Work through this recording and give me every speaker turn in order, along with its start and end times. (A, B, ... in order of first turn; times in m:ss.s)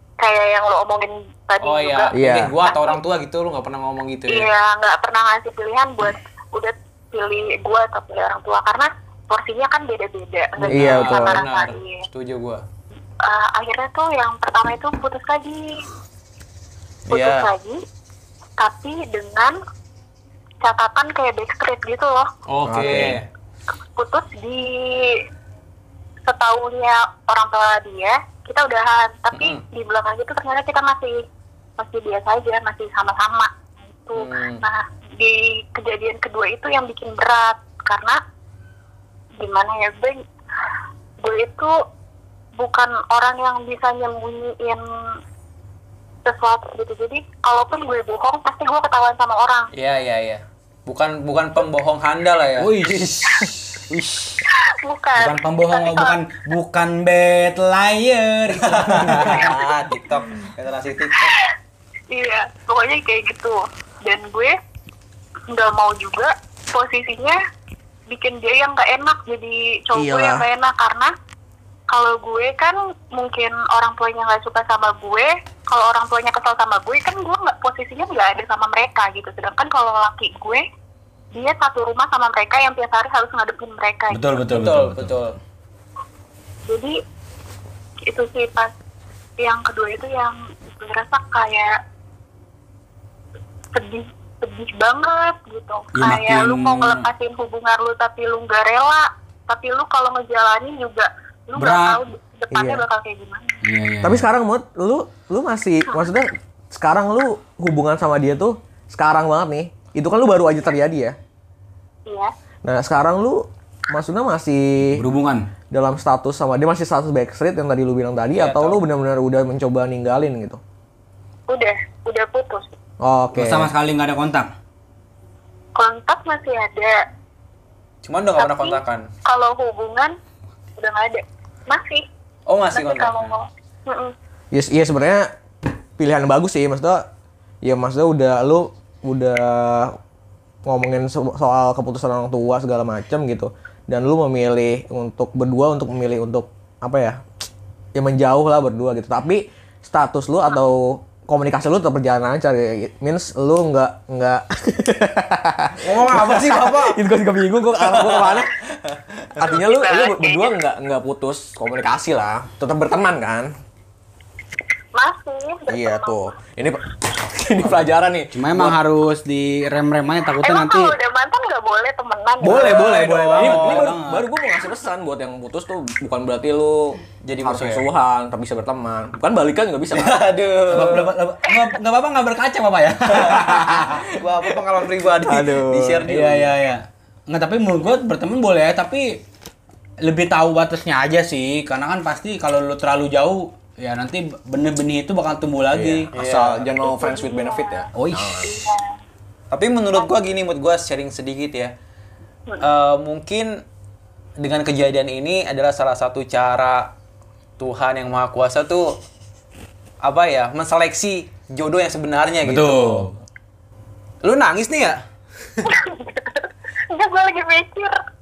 0:00.2-0:03.0 A
0:01.6-0:04.5 B
0:02.1-0:02.5 C
0:04.3-0:12.0 A
0:10.6-0:12.6 B
0:10.7-0:11.4 C
0:13.2-0:15.8 A
0:17.1-0:17.5 B
0:17.1-0:17.8 A
0:18.6-0:19.6 A
0:20.6-0:22.3 A
0:22.5-0:23.2 B
0:22.6-0:23.2 C
0:24.0-0:25.2 A
0:26.2-0:31.2 A
0:29.3-0:29.6 B
0:31.8-0:38.2 A
0:34.1-0:34.6 B
0:39.4-0:40.2 A
0:41.2-0:41.7 A
0:42.6-0:44.8 A
0:46.2-0:49.7 A
0:49.7-0:53.5 B
0:52.6-0:54.3 D
0:54.5-0:56.2 A
0:55.2-0:59.6 D
0:58.5-1:01.4 B
1:02.1-1:04.6 A
1:05.5-1:07.4 A
1:08.1-1:11.1 A
1:09.9-1:10.5 C
1:11.9-1:20.6 A
1:21.3-1:24.2 A
1:24.1-1:25.3 D
1:24.5-1:25.4 B
1:26.7-1:27.0 A
1:28.1-1:28.7 A
1:29.4-1:31.7 A
1:33.7-1:43.6 A
1:35.9-1:37.1 D
1:41.6-1:42.0 D
1:42.5-1:42.8 C
1:43.6-1:44.2 D
1:44.0-1:51.2 C
1:52.1-1:52.3 A
1:52.6-1:55.0 C
1:54.9-1:55.5 D
1:55.7-2:00.6 C
1:58.4-1:58.8 B
2:01.5-2:02.7 A
2:03.0-2:03.7 C
2:03.3-2:04.5 D
2:05.8-2:07.0 A
2:08.0-2:09.1 B
2:08.4-2:10.2 A
2:10.8-2:12.1 A
2:12.5-2:13.3 B
2:12.7-2:14.1 A
2:14.5-2:15.3 C
2:16.0-2:17.1 C
2:17.6-2:20.0 C
2:20.6-2:27.2 C
2:27.9-2:38.5 C
2:35.8-2:37.0 B
2:37.8-2:38.5 B
2:39.3-2:43.5 C
2:39.4-2:40.5 A
2:44.9-2:46.2 A
2:45.7-2:48.8 C
2:48.3-2:50.9 D
2:50.4-2:52.8 A
2:52.4-2:54.2 D
2:52.4-2:54.0 B
2:52.6-3:00.3 C
2:57.2-2:57.8 B
2:59.9-3:01.2 B
3:00.7-3:04.1 D
3:03.1-3:06.5 B
3:05.2-3:06.1 C
3:06.1-3:09.2 D
3:10.0-3:16.1 D
3:15.7-3:18.6 C
3:16.1-3:16.6 B
3:16.8-3:17.9 A
3:18.0-3:18.5 D
3:18.4-3:19.0 A
3:19.5-3:21.7 B
3:22.6-3:23.6 B
3:24.4-3:26.9 B
3:27.6-3:29.0 B
3:30.0-3:33.1 B
3:32.4-3:33.2 D
3:34.2-3:35.0 B
3:35.6-3:38.0 A